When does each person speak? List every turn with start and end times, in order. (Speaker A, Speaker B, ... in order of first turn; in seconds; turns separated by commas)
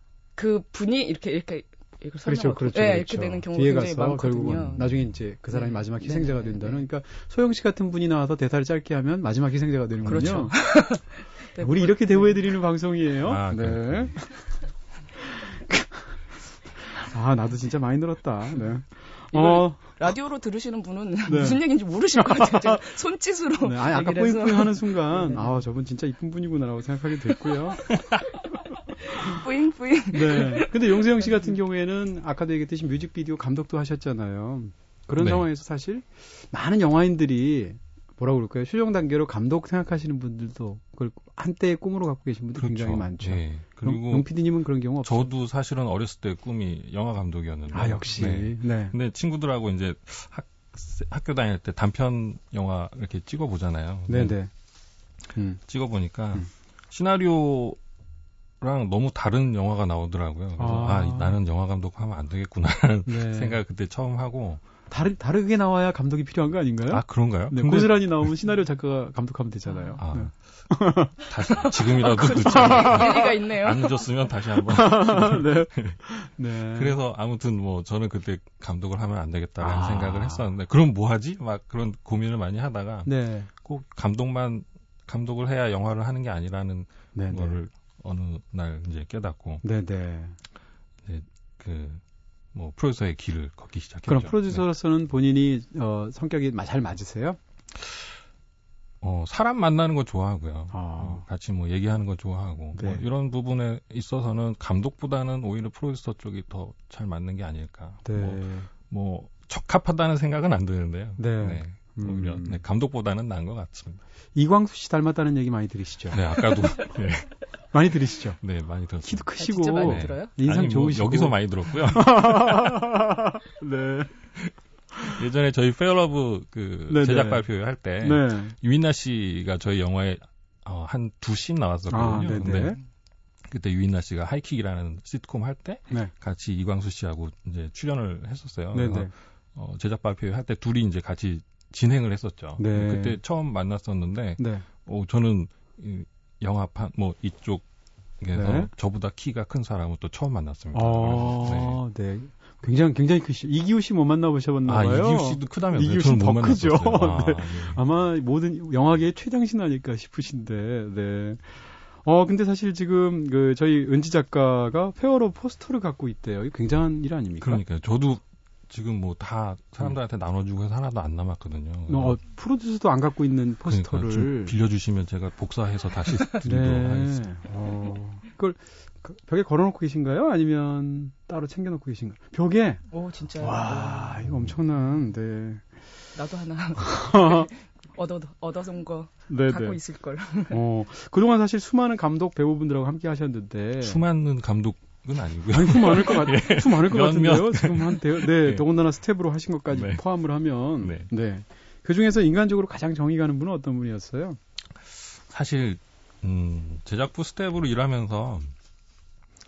Speaker A: 0.3-6.8, Speaker B: 2.2-10.5, Speaker A: 10.1-12.5, Speaker C: 10.1-10.5, Speaker B: 11.6-14.4, Speaker C: 13.2-14.2, Speaker B: 15.2-16.2, Speaker B: 16.8-20.0, Speaker A: 19.3-25.6, Speaker B: 21.3-22.9, Speaker B: 23.6-28.0, Speaker A: 28.9-31.5, Speaker B: 29.1-29.4, Speaker B: 30.1-45.3, Speaker C: 35.2-35.5, Speaker C: 42.5-44.3, Speaker C: 45.0-54.3, Speaker B: 47.7-48.9, Speaker B: 54.1-54.5, Speaker B: 55.3-55.6, Speaker C: 55.7-57.8, Speaker C: 58.6-64.6, Speaker B: 60.6-61.4, Speaker B: 63.1-63.6, Speaker B: 64.9-73.3, Speaker C: 66.9-68.3, Speaker A: 69.7-70.0, Speaker C: 70.0-70.3, Speaker C: 71.2-76.0, Speaker A: 71.8-74.0, Speaker B: 74.6-77.0, Speaker C: 76.7-89.6, Speaker B: 79.6-80.5, Speaker B: 83.0-83.5, Speaker B: 87.1-87.6, Speaker B: 89.6-90.3, Speaker C: 91.0-92.0, Speaker C: 92.5-94.6, Speaker B: 94.0-97.4, Speaker C: 97.8-98.1, Speaker C: 99.0-114.0, Speaker B: 100.7-101.2, Speaker B: 102.8-103.0, Speaker B: 108.0-108.7, Speaker B: 111.2-112.6, Speaker B: 114.3-116.2, Speaker C: 116.1-117.4, Speaker B: 117.7-118.4, Speaker C: 118.4-122.8, Speaker B: 119.0-124.1, Speaker A: 119.4-120.3, Speaker C: 124.4-132.8, Speaker B: 126.9-127.4, Speaker B: 128.0-128.5, Speaker B: 131.9-132.8, Speaker C: 133.5-147.7, Speaker B: 138.7-139.1, Speaker B: 142.6-143.2, Speaker B: 144.4-144.6, Speaker C: 148.2-151.8, Speaker B: 148.3-148.7, Speaker B: 150.7-167.6, Speaker C: 154.6-157.8, Speaker C: 167.4-172.2, Speaker B: 171.9-174.5, Speaker C: 173.6-177.3, Speaker B: 176.4-182.8, Speaker A: 182.9-184.2, Speaker B: 183.4-185.6, Speaker A: 186.2-190.6, Speaker B: 186.8-187.5, Speaker B: 189.3-189.8, Speaker B: 190.5-194.0, Speaker C: 193.8-198.6, Speaker B: 195.5-204.4, Speaker C: 199.7-200.0, Speaker C: 200.8-201.1, Speaker C: 205.2-208.5